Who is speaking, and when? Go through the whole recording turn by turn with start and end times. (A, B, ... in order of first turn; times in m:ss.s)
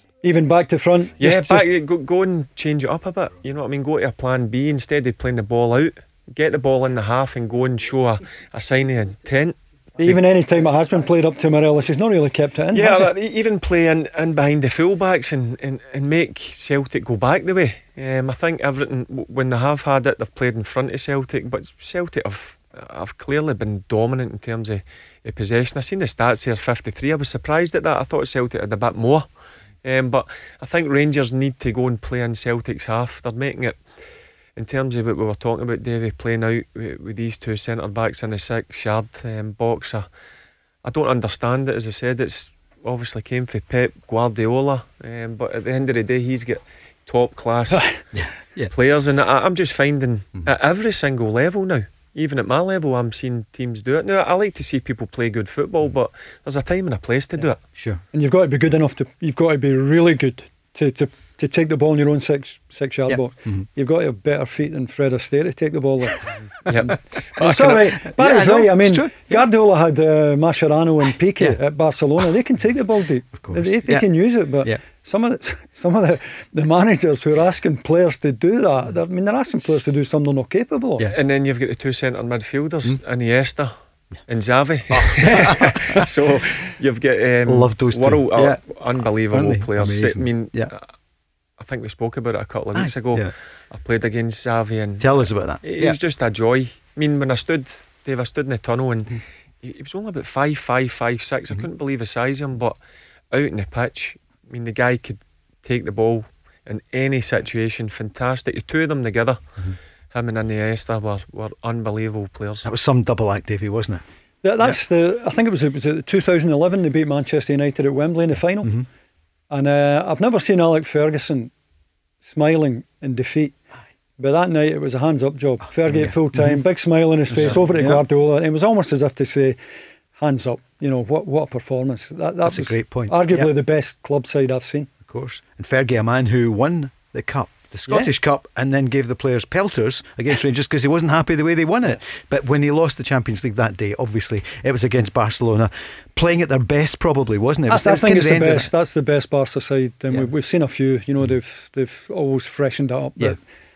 0:00.2-0:01.7 A
0:01.2-0:10.2 B
0:10.0-0:13.1 A
0:12.7-0:29.3 B
0:29.8-0:33.8 B
0:34.6-0:40.1 B
0:40.8-0:47.9 B
0:48.1-0:48.7 C
0:48.7-0:57.6 B
0:57.4-0:58.0 C
0:58.1-1:06.3 A
1:03.1-1:03.6 C
1:06.7-1:07.0 B
1:07.4-1:09.4 C
1:07.4-1:21.1 A
1:13.4-1:14.1 C
1:21.1-1:23.7 B
1:24.2-1:30.9 B
1:24.9-1:26.0 C
1:27.4-1:28.7 C
1:29.3-1:30.7 C
1:31.6-1:35.1 B
1:32.7-1:33.3 C
1:35.0-1:36.0 C
1:35.6-1:42.8 B
1:43.3-1:49.4 B
1:50.1-1:52.7 B
1:52.6-1:54.0 C
1:54.4-1:58.7 A
1:59.5-2:01.5 A
2:02.2-2:03.6 A
2:04.2-2:09.6 A
2:05.6-2:06.6 C
2:07.3-2:08.0 C
2:10.2-2:14.9 A
2:12.4-2:13.5 C
2:15.1-2:28.7 C
2:27.7-2:33.4 A